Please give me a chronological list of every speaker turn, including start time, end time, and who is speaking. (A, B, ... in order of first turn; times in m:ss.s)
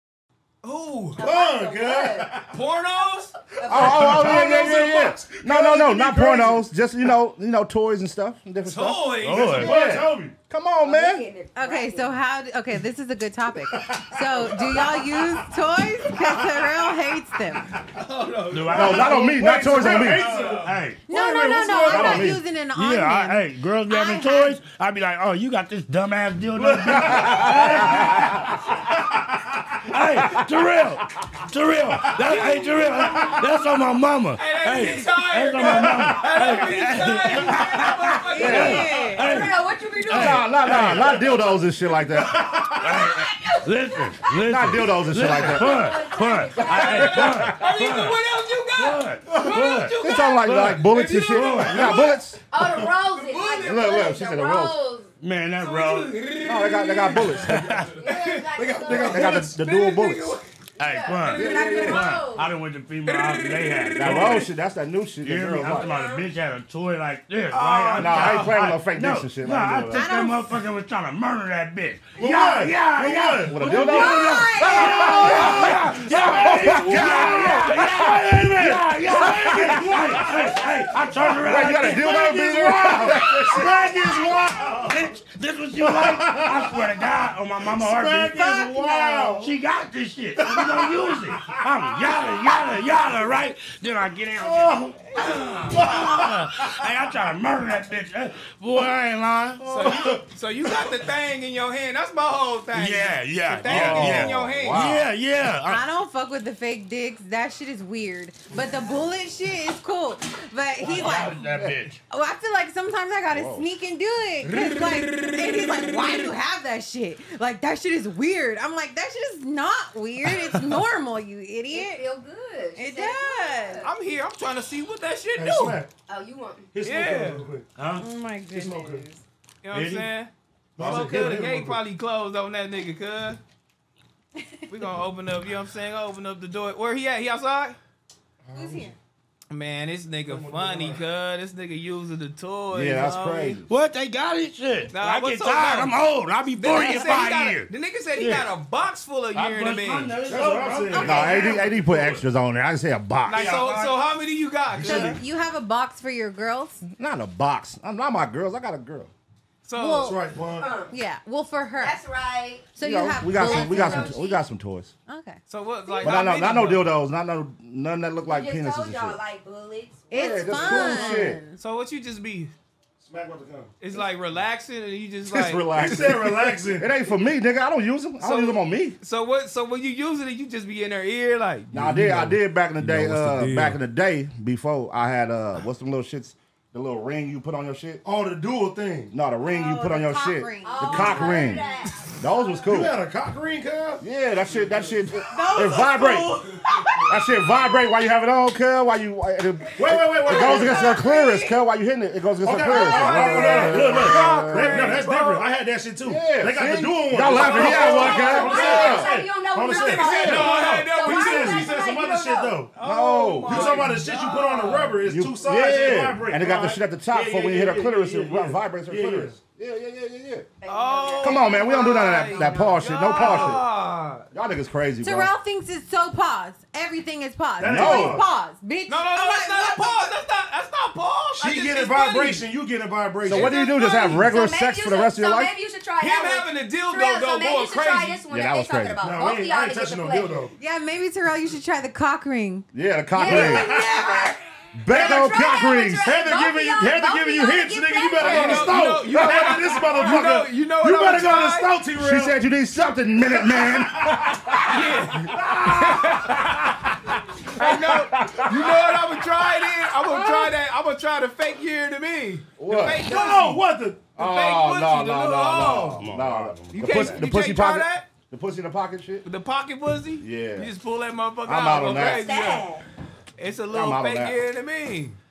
0:00.6-0:01.2 A
0:01.2-0:02.3 B
0:01.2-0:02.5 C
0:02.5-0:03.4 A
0:03.6-0:04.6 B
0:03.7-0:11.2 D
0:03.7-0:06.7 C
0:08.6-0:09.7 A
0:09.2-0:09.7 E
0:09.3-0:10.3 C
0:10.8-0:12.1 B
0:11.5-0:17.7 F
0:13.8-0:14.9 C
0:17.9-0:19.2 A
0:18.5-0:19.2 E
0:18.7-0:22.4 C
0:18.7-0:20.4 D
0:20.1-0:20.7 A
0:20.4-0:21.1 E
0:21.0-0:24.6 F
0:22.7-0:28.5 E
0:26.5-0:28.2 C
0:27.0-0:28.4 D
0:28.8-0:29.8 C
0:29.9-0:41.2 E
0:31.9-0:33.3 C
0:32.3-0:32.6 A
0:34.4-0:38.9 A
0:35.6-0:36.3 C
0:38.3-0:39.4 F
0:38.4-0:38.9 D
0:38.8-0:40.8 B
0:40.1-0:42.4 D
0:42.1-0:43.1 C
0:42.8-0:52.1 E
0:42.8-0:47.4 B
0:44.5-0:45.9 D
0:46.5-0:47.7 D
0:46.5-0:52.0 A
0:49.2-0:49.6 C
0:50.0-0:52.4 D
0:51.7-0:55.1 B
0:53.0-0:54.1 A
0:53.6-0:54.8 D
0:55.2-0:56.3 E
0:55.6-0:57.4 A
0:56.4-0:57.8 D
0:57.4-0:58.0 E
0:58.0-0:59.4 B
0:58.0-1:00.5 A
0:58.6-0:59.6 C
0:58.9-1:00.3 D
1:00.8-1:04.5 E
1:00.8-1:02.5 B
1:01.0-1:02.0 A
1:01.3-1:02.1 D
1:03.0-1:04.5 A
1:03.9-1:05.9 D
1:05.2-1:40.0 E
1:05.8-1:06.2 B
1:07.5-1:08.7 A
1:08.0-1:10.1 D
1:09.9-1:10.6 F
1:12.2-1:13.8 C
1:13.4-1:20.0 D
1:13.6-1:15.8 F
1:14.0-1:15.6 B
1:16.8-1:17.2 C
1:18.1-1:21.0 C
1:21.4-1:24.5 D
1:22.7-1:25.0 C
1:25.8-1:26.9 C
1:27.6-1:29.5 C
1:30.4-1:32.6 C
1:34.4-1:35.1 C
1:35.7-1:36.2 C
1:39.6-1:45.0 A
1:39.9-1:40.2 C
1:42.7-1:45.8 E
1:43.6-1:45.1 D
1:45.6-1:51.4 F
1:50.8-1:52.0 E
1:52.1-2:02.0 F
1:53.3-1:53.6 D
2:01.7-2:03.9 B
2:02.8-2:03.8 F
2:03.8-2:05.8 A
2:05.3-2:05.9 C
2:06.1-2:06.7 B
2:06.7-2:07.7 C
2:06.8-2:07.4 A
2:07.8-2:08.1 E
2:08.0-2:09.2 F
2:08.5-2:09.0 C
2:09.6-2:13.4 A
2:09.7-2:10.1 E
2:10.8-2:11.8 C
2:14.7-2:17.8 A
2:18.4-2:18.9 C
2:18.5-2:18.9 F
2:19.5-2:23.6 A
2:20.2-2:21.0 C
2:22.7-2:23.7 D
2:23.7-2:28.5 E
2:24.9-2:26.0 A
2:26.5-2:30.2 A
2:29.3-2:32.2 E
2:30.2-2:32.2 C
2:30.9-2:31.6 F
2:31.0-2:33.5 D
2:33.2-2:35.2 A
2:33.3-2:34.0 E
2:34.7-2:35.2 C
2:34.8-2:36.8 F
2:36.8-2:39.1 D
2:39.6-2:40.1 A
2:39.8-2:40.2 F
2:40.0-2:40.7 C
2:40.6-2:40.9 B
2:40.9-2:42.0 F
2:41.8-2:42.7 B
2:42.7-2:44.2 F
2:42.8-2:44.9 D
2:43.3-2:44.4 B
2:45.1-2:45.4 F
2:45.5-2:46.9 A
2:45.9-2:46.3 B
2:46.0-2:49.2 D
2:48.2-2:51.2 B
2:50.1-2:51.6 F
2:50.1-2:51.4 D
2:51.6-2:52.5 A
2:53.0-2:53.7 C
2:53.8-2:56.3 A
2:55.2-2:59.0 D
2:55.7-2:56.9 C
2:58.2-3:01.7 A
3:01.7-3:08.0 D
3:01.7-3:02.4 C
3:02.8-3:03.8 A
3:08.0-3:09.1 C
3:09.1-3:11.6 D
3:09.4-3:11.6 F
3:10.6-3:12.6 B
3:12.2-3:12.9 D
3:12.6-3:14.9 C
3:14.0-3:16.4 D
3:15.3-3:17.0 F
3:17.1-3:25.0 D
3:19.8-3:21.0 C
3:20.3-3:21.6 A
3:22.4-3:32.7 C
3:22.7-3:25.5 A
3:26.0-3:29.1 D
3:27.4-3:32.6 B
3:29.8-3:31.8 A
3:30.1-3:30.5 D
3:32.8-3:34.9 A
3:32.8-3:33.8 D
3:33.4-3:39.3 C
3:35.0-3:40.5 D
3:40.6-3:42.6 B
3:40.7-3:44.2 A
3:41.2-3:43.6 D
3:42.4-3:43.5 C
3:44.3-3:45.3 D
3:45.0-3:50.2 F
3:47.6-3:48.3 C
3:47.6-3:48.2 D
3:48.9-3:52.4 A
3:51.3-3:53.5 C
3:53.2-3:55.5 D
3:53.3-3:53.7 A
3:53.5-4:00.5 B
3:56.0-3:58.2 A
3:58.3-3:59.0 D
3:59.0-4:00.5 C
4:00.6-4:02.6 F
4:02.7-4:03.7 D
4:03.1-4:04.4 B
4:03.4-4:03.7 C
4:04.7-4:06.1 D
4:04.9-4:10.1 B
4:04.9-4:12.4 C
4:08.2-4:11.7 A
4:12.0-4:15.5 D
4:13.2-4:14.3 C
4:14.7-4:16.7 A
4:15.3-4:15.6 C
4:17.5-4:23.6 A
4:17.6-4:18.8 D
4:20.1-4:20.5 B
4:22.6-4:23.1 D
4:23.0-4:24.1 C
4:24.2-4:26.0 A
4:24.2-4:29.2 D
4:26.0-4:27.2 E
4:26.7-4:28.1 A
4:29.2-4:32.7 A
4:30.2-4:30.7 D
4:31.4-4:32.3 D
4:31.9-4:32.8 B
4:33.4-4:35.2 A
4:33.7-4:34.4 D